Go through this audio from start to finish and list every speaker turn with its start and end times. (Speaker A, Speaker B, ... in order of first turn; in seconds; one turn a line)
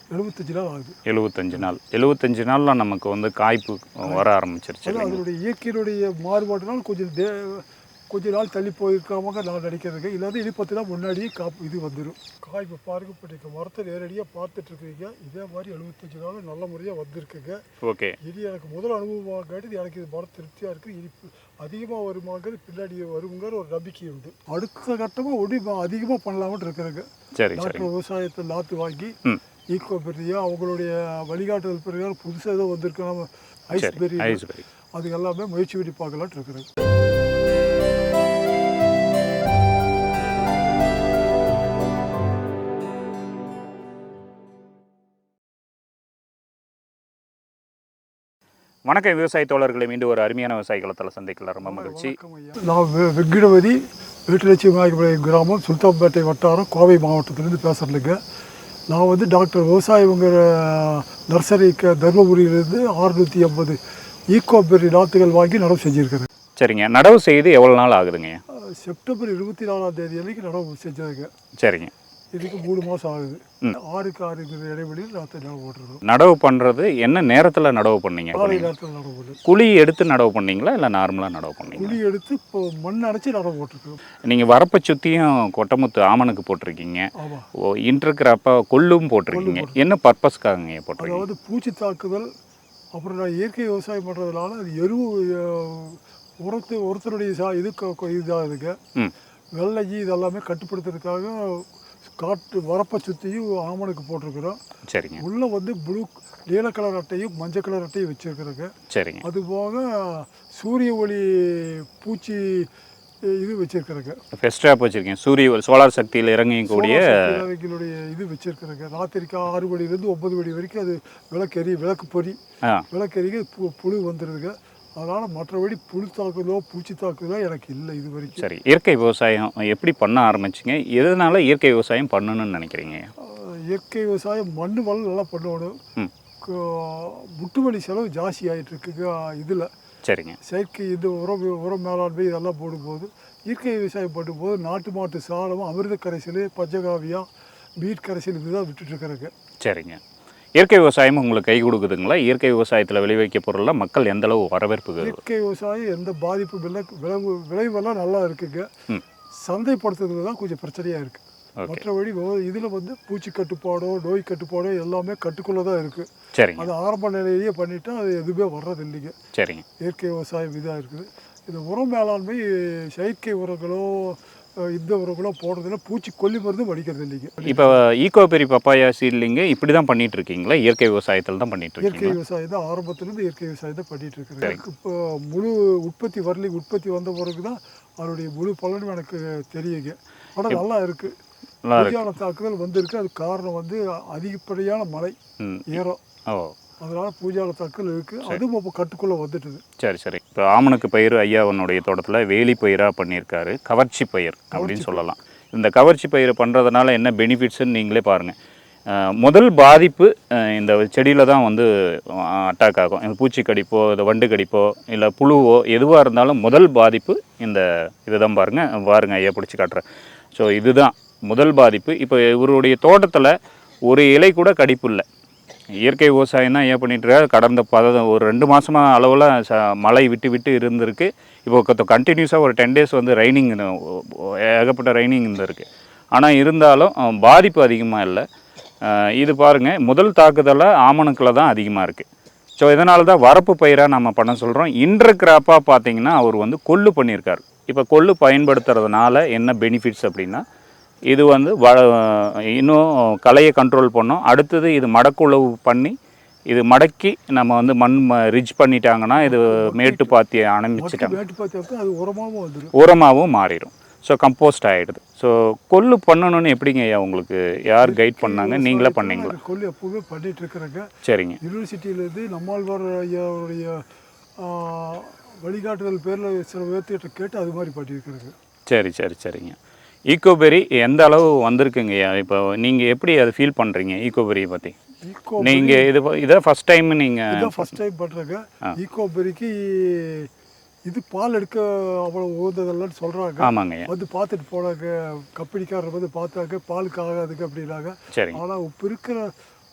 Speaker A: 0.1-1.0
Speaker B: 1.1-5.2
Speaker A: 4.8-17.6
Speaker B: 17.8-18.2
Speaker A: 18.2-29.1
Speaker B: 27.3-27.9
Speaker A: 29.7-36.7
Speaker B: 33.7-34.6
Speaker B: 48.9-52.1
Speaker A: 51.6-58.2
Speaker A: 58.9-63.8
Speaker A: 64.3-66.3
Speaker B: 66.6-68.4
Speaker A: 68.5-71.3
Speaker B: 71.6-71.9
Speaker A: 72.3-76.0
Speaker B: 76.0-78.7
Speaker A: 78.3-79.4
Speaker B: 79.4-82.0
Speaker A: 81.7-84.0
Speaker B: 84.2-87.1
Speaker A: 87.2-87.5
Speaker B: 87.7-91.2
Speaker A: 89.3-89.8
Speaker A: 91.0-92.3
Speaker A: 92.9-98.8
Speaker A: 99.6-104.6
Speaker B: 104.9-105.2
Speaker A: 105.2-108.7
Speaker B: 108.9-109.2
Speaker A: 109.2-112.7
Speaker A: 113.3-114.2
Speaker B: 114.3-117.4
Speaker A: 116.7-122.4
Speaker A: 122.9-128.4
Speaker B: 128.4-133.1
Speaker A: 133.2-135.8
Speaker A: 136.4-139.7
Speaker B: 140.1-140.4
Speaker A: 140.4-147.2
Speaker A: 147.8-149.3
Speaker B: 149.6-150.0
Speaker B: 150.6-155.2
Speaker A: 155.0-158.7
Speaker A: 159.4-169.2
Speaker B: 161.6-161.8
Speaker B: 166.3-166.7
Speaker B: 169.3-169.6
Speaker A: 169.8-177.8
Speaker B: 177.4-182.2
Speaker A: 181.8-191.2
Speaker B: 191.6-192.1
Speaker A: 191.8-195.2
Speaker B: 195.4-196.6
Speaker A: 195.7-196.0
Speaker A: 196.8-199.6
Speaker B: 199.8-208.3
Speaker A: 204.5-205.0
Speaker B: 208.9-223.3
Speaker B: 223.9-225.0
Speaker B: 225.8-238.2
Speaker B: 238.8-242.1
Speaker B: 242.6-250.4
Speaker B: 251.1-255.9
Speaker B: 256.5-261.2
Speaker A: 259.2-260.1
Speaker A: 260.8-262.7
Speaker B: 262.7-269.4
Speaker A: 267.8-270.9
Speaker B: 271.0-271.4
Speaker A: 271.4-273.8
Speaker A: 274.4-278.3
Speaker B: 278.7-279.6
Speaker B: 280.1-284.7
Speaker A: 285.0-285.9
Speaker B: 285.4-287.7
Speaker A: 287.3-290.3
Speaker A: 290.9-299.3
Speaker B: 293.4-293.9
Speaker B: 298.1-298.4